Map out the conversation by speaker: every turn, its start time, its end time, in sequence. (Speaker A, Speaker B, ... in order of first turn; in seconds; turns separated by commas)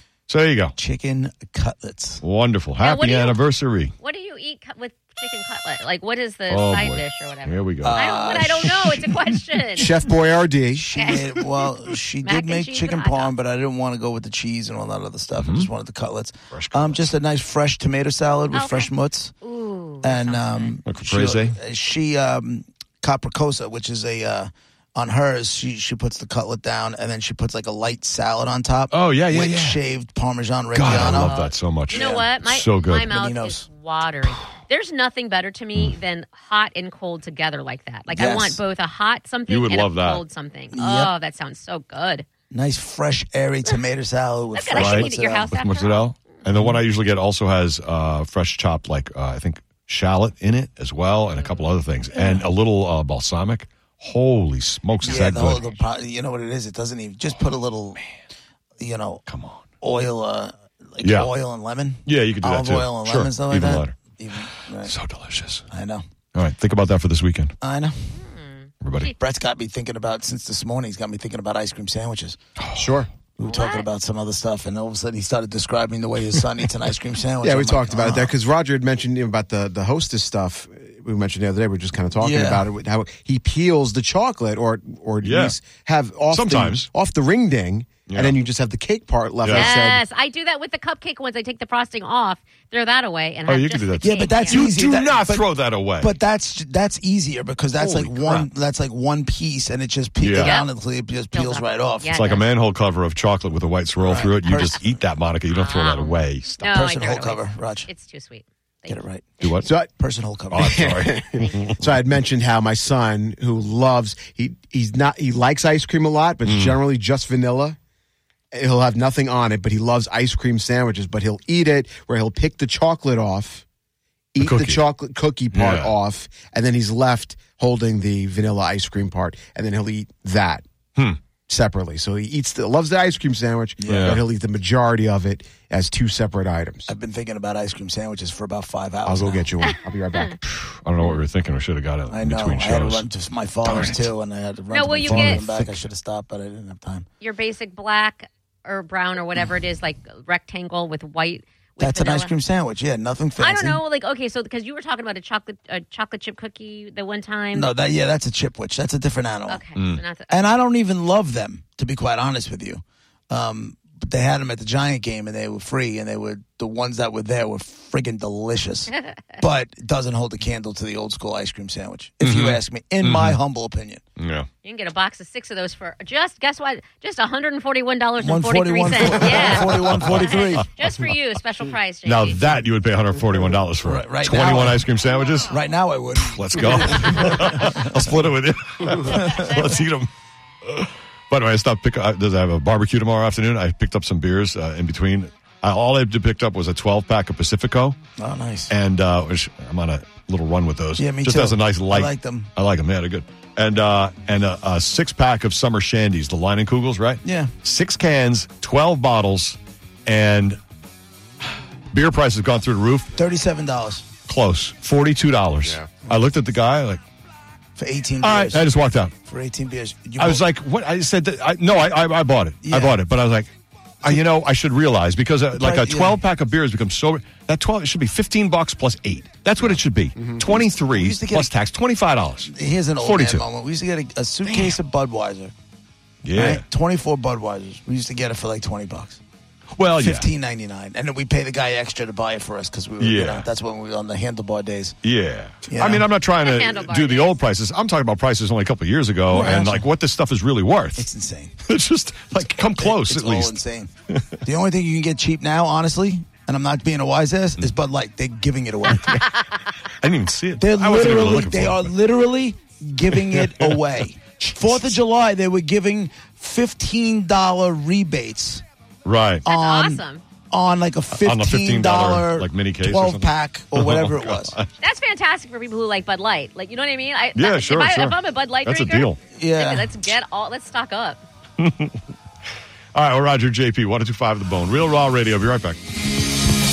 Speaker A: 0.3-0.7, Speaker B: 0.8-2.2, Speaker A: 2.2-3.9, Speaker C: 2.8-3.4, Speaker C: 4.0-10.0, Speaker A: 6.5-8.0, Speaker B: 7.8-9.1, Speaker D: 9.7-10.9, Speaker B: 10.8-19.3, Speaker C: 10.9-11.2, Speaker C: 12.2-13.3, Speaker A: 15.4-15.7, Speaker A: 16.5-17.1, Speaker C: 18.5-20.8, Speaker B: 20.0-31.4, Speaker A: 20.9-21.6, Speaker A: 28.9-29.8, Speaker A: 30.7-33.1, Speaker C: 30.9-42.2, Speaker B: 31.9-32.3, Speaker B: 33.0-33.6, Speaker B: 38.1-38.6, Speaker A: 39.5-40.2, Speaker B: 40.7-41.1, Speaker B: 42.5-45.5, Speaker C: 44.5-46.1, Speaker A: 44.7-55.6, Speaker C: 51.4-51.6, Speaker B: 52.1-52.4, Speaker B: 55.0-58.0, Speaker C: 55.0-55.8, Speaker B: 58.8-59.2, Speaker A: 59.3-59.6, Speaker B: 59.8-64.9, Speaker A: 61.0-61.3, Speaker A: 62.0-64.0, Speaker A: 64.8-65.7, Speaker B: 65.7-66.0, Speaker A: 66.3-67.5, Speaker B: 67.6-68.1, Speaker C: 68.1-69.1, Speaker A: 68.8-69.1, Speaker B: 69.1-72.4, Speaker A: 72.6-73.0, Speaker D: 72.8-73.1, Speaker B: 73.4-78.3, Speaker C: 73.4-73.9, Speaker D: 77.4-90.0, Speaker B: 82.2-82.6, Speaker A: 85.2-85.6, Speaker A: 86.3-86.9, Speaker A: 88.1-88.3, Speaker A: 89.4-89.7, Speaker C: 89.5-94.6, Speaker A: 93.5-96.1, Speaker B: 94.0-95.5, Speaker B: 96.0-102.2, Speaker A: 97.8-98.5, Speaker A: 100.2-100.6, Speaker C: 100.4-100.7, Speaker C: 101.3-102.5, Speaker A: 102.1-106.7, Speaker B: 104.0-104.8, Speaker C: 105.5-109.7, Speaker B: 106.7-107.9, Speaker B: 108.9-109.3, Speaker A: 109.4-109.7, Speaker D: 109.6-109.9, Speaker B: 109.9-110.9, Speaker A: 110.5-111.8, Speaker D: 110.5-117.8, Speaker A: 116.4-116.8, Speaker D: 118.5-123.6, Speaker D: 124.3-130.6, Speaker A: 124.4-124.8, Speaker A: 125.5-125.9, Speaker D: 131.5-136.9, Speaker B: 133.8-134.2, Speaker A: 133.9-134.2, Speaker B: 136.9-139.4, Speaker D: 139.1-140.4, Speaker C: 139.6-140.3, Speaker A: 140.4-143.0, Speaker B: 142.1-147.1, Speaker A: 143.6-144.1, Speaker C: 144.7-145.4, Speaker A: 145.1-145.7, Speaker C: 147.2-152.3, Speaker B: 151.8-153.8, Speaker C: 153.4-157.7, Speaker B: 157.5-159.6, Speaker C: 159.5-160.3, Speaker A: 159.8-160.0, Speaker B: 160.3-174.0, Speaker A: 172.2-173.4, Speaker A: 174.2-174.5, Speaker C: 174.6-182.4, Speaker B: 178.2-180.7, Speaker A: 179.5-180.6, Speaker A: 182.1-185.5, Speaker B: 183.8-184.8, Speaker B: 185.5-188.0, Speaker A: 186.2-190.1, Speaker B: 188.9-189.6, Speaker A: 190.6-198.0, Speaker B: 198.2-198.7, Speaker A: 198.7-210.6, Speaker B: 201.0-202.5, Speaker B: 207.2-207.5, Speaker A: 211.9-213.1, Speaker B: 213.2-214.1, Speaker A: 214.3-217.0, Speaker B: 217.8-218.6, Speaker A: 218.2-219.1, Speaker B: 219.2-220.4, Speaker A: 220.2-223.5, Speaker B: 222.6-223.0, Speaker A: 224.0-233.4, Speaker B: 225.5-226.2, Speaker B: 230.4-231.5, Speaker B: 232.5-235.5, Speaker A: 234.4-234.8, Speaker A: 236.2-236.6, Speaker B: 236.3-239.2, Speaker A: 239.8-240.3, Speaker B: 240.0-244.9, Speaker A: 243.0-243.5, Speaker A: 245.0-251.1, Speaker B: 245.7-246.1, Speaker C: 246.4-247.4, Speaker B: 249.3-249.8, Speaker B: 251.0-251.6, Speaker A: 251.6-253.6, Speaker B: 252.8-253.9, Speaker A: 254.1-254.3, Speaker B: 254.4-259.3, Speaker A: 258.9-259.2, Speaker A: 260.0-261.9, Speaker B: 260.6-268.6, Speaker A: 263.3-263.8, Speaker A: 264.4-264.9, Speaker A: 269.0-269.4, Speaker B: 269.4-274.5, Speaker C: 269.4-270.2, Speaker A: 271.1-274.7, Speaker C: 274.8-281.2, Speaker A: 277.4-279.2, Speaker B: 279.3-279.9, Speaker A: 281.6-281.9, Speaker A: 282.9-285.8